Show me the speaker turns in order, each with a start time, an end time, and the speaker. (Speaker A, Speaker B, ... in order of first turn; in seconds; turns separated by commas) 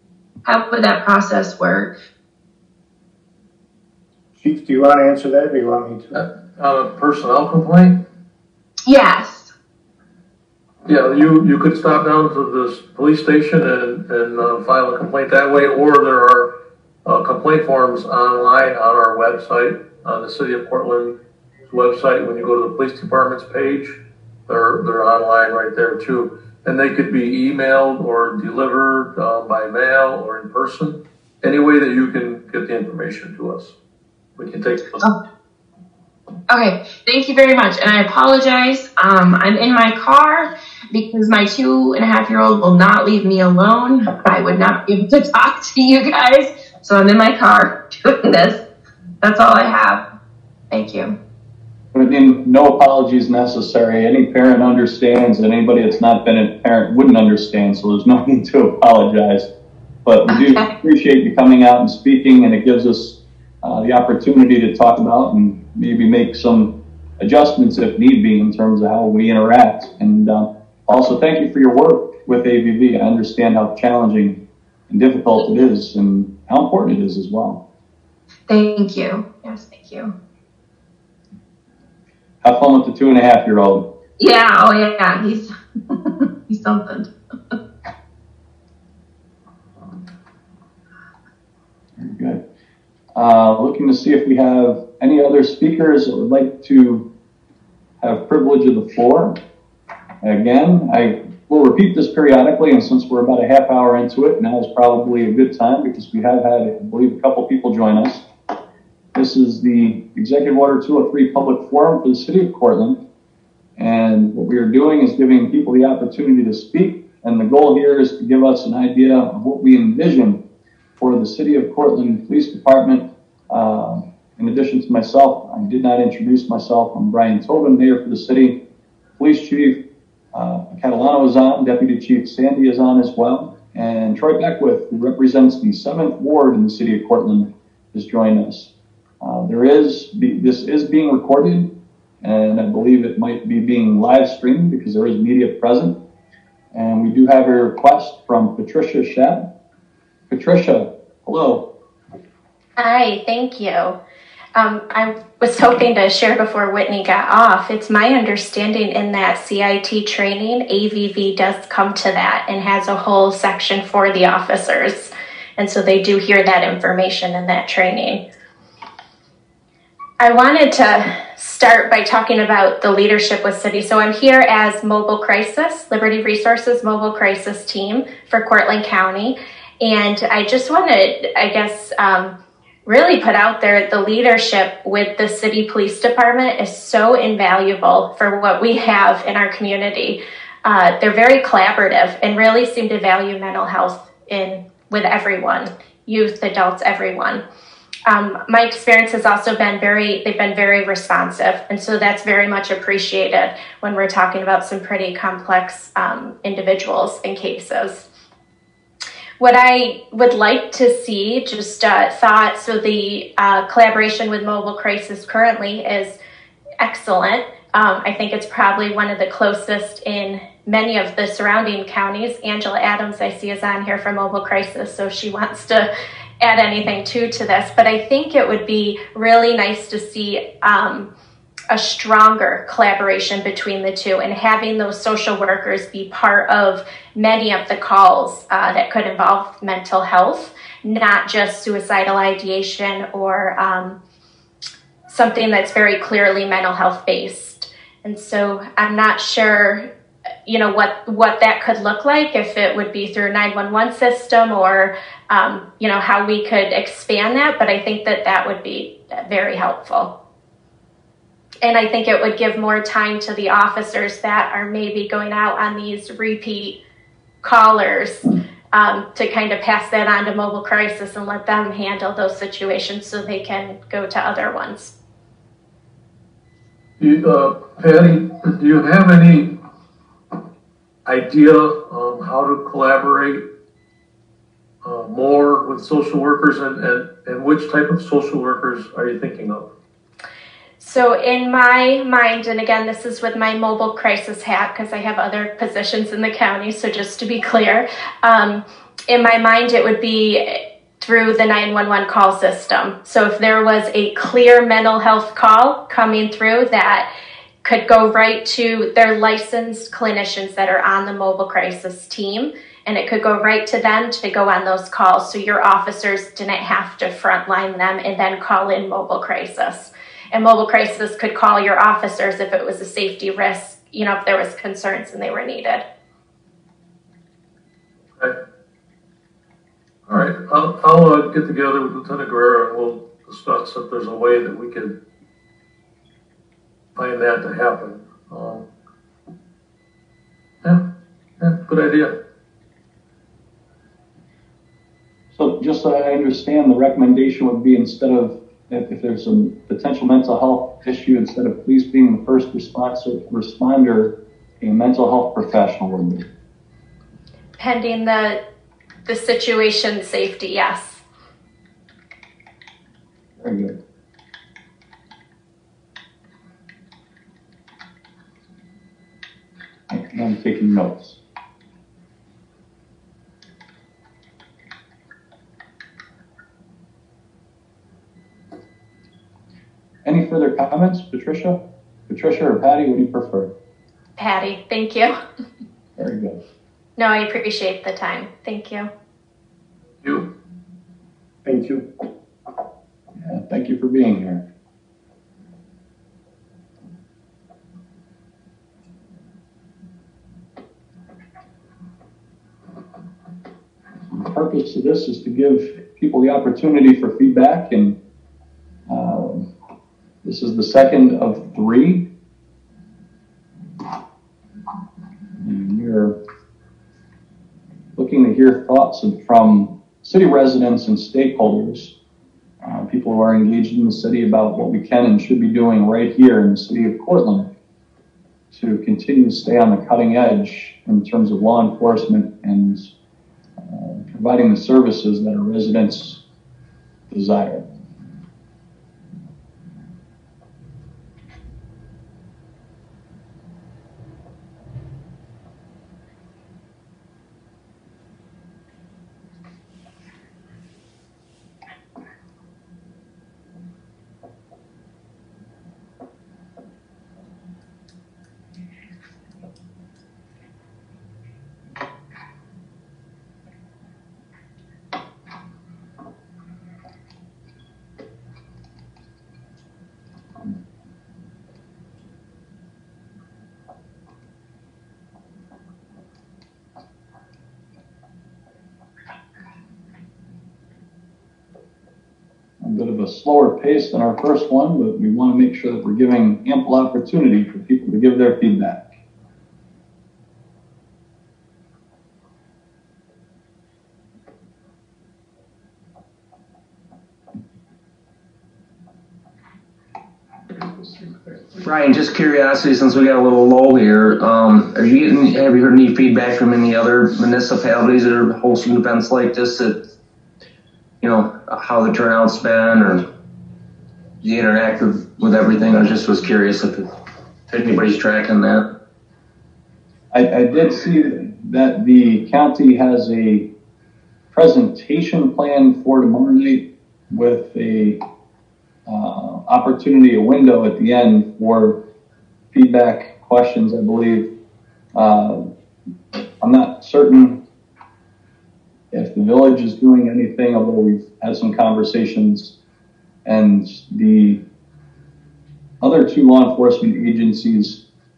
Speaker A: 0.5-1.9, Speaker B: 4.4-6.2, Speaker C: 6.1-8.0, Speaker A: 8.9-9.5, Speaker C: 10.8-16.5, Speaker C: 17.1-21.2, Speaker C: 21.7-33.8, Speaker C: 34.4-35.0, Speaker A: 36.5-48.6, Speaker A: 49.2-50.0, Speaker A: 50.7-51.2, Speaker D: 51.9-59.5, Speaker D: 60.0-77.6, Speaker A: 60.3-60.7, Speaker A: 78.5-80.1, Speaker D: 82.4-83.8, Speaker A: 84.2-87.6, Speaker D: 92.0-92.4, Speaker D: 93.2-97.1, Speaker D: 98.0-99.4, Speaker D: 100.2-108.3, Speaker D: 109.1-113.0, Speaker D: 113.8-120.4, Speaker D: 121.0-128.6, Speaker D: 129.2-129.8, Speaker D: 130.3-141.7, Speaker D: 142.2-145.9, Speaker D: 146.7-149.5, Speaker D: 150.3-151.7, Speaker E: 152.8-154.0, Speaker E: 154.6-168.2, Speaker E: 170.2-182.3, Speaker E: 182.8-197.4, Speaker E: 198.1-208.1, Speaker E: 209.4-216.2, Speaker E: 216.8-225.9, Speaker E: 226.4-231.1, Speaker E: 231.7-244.0, Speaker E: 245.1-249.8, Speaker E: 250.5-260.1, Speaker E: 261.6-266.8, Speaker E: 267.4-274.9, Speaker C: 277.0-279.6, Speaker C: 281.1-283.5, Speaker C: 284.8-289.7, Speaker E: 290.8-307.1, Speaker E: 307.6-325.8, Speaker C: 330.1-334.9, Speaker C: 337.0-338.6, Speaker C: 341.4-342.1, Speaker D: 345.4-356.3, Speaker E: 357.6-358.4, Speaker E: 359.1-361.0, Speaker D: 363.4-363.8, Speaker D: 369.9-371.2, Speaker D: 380.1-383.5, Speaker E: 384.2-385.1, Speaker D: 386.0-386.4, Speaker E: 387.0-388.9, Speaker B: 391.4-391.9, Speaker D: 393.2-394.4, Speaker D: 404.1-408.0, Speaker D: 408.9-409.5, Speaker D: 410.2-412.1, Speaker D: 415.4-416.2, Speaker D: 418.0-421.9, Speaker D: 422.6-427.5, Speaker D: 428.5-432.9, Speaker D: 433.6-436.2, Speaker D: 437.1-437.6, Speaker D: 482.6-488.8, Speaker F: 501.6-509.8, Speaker F: 511.0-513.1, Speaker F: 514.2-516.9, Speaker F: 517.5-518.7, Speaker D: 520.1-523.5, Speaker D: 524.3-528.0, Speaker D: 528.9-531.8, Speaker D: 532.5-534.3, Speaker D: 535.0-535.5, Speaker D: 536.4-537.4, Speaker D: 538.9-542.5, Speaker D: 543.2-544.4, Speaker D: 545.8-547.8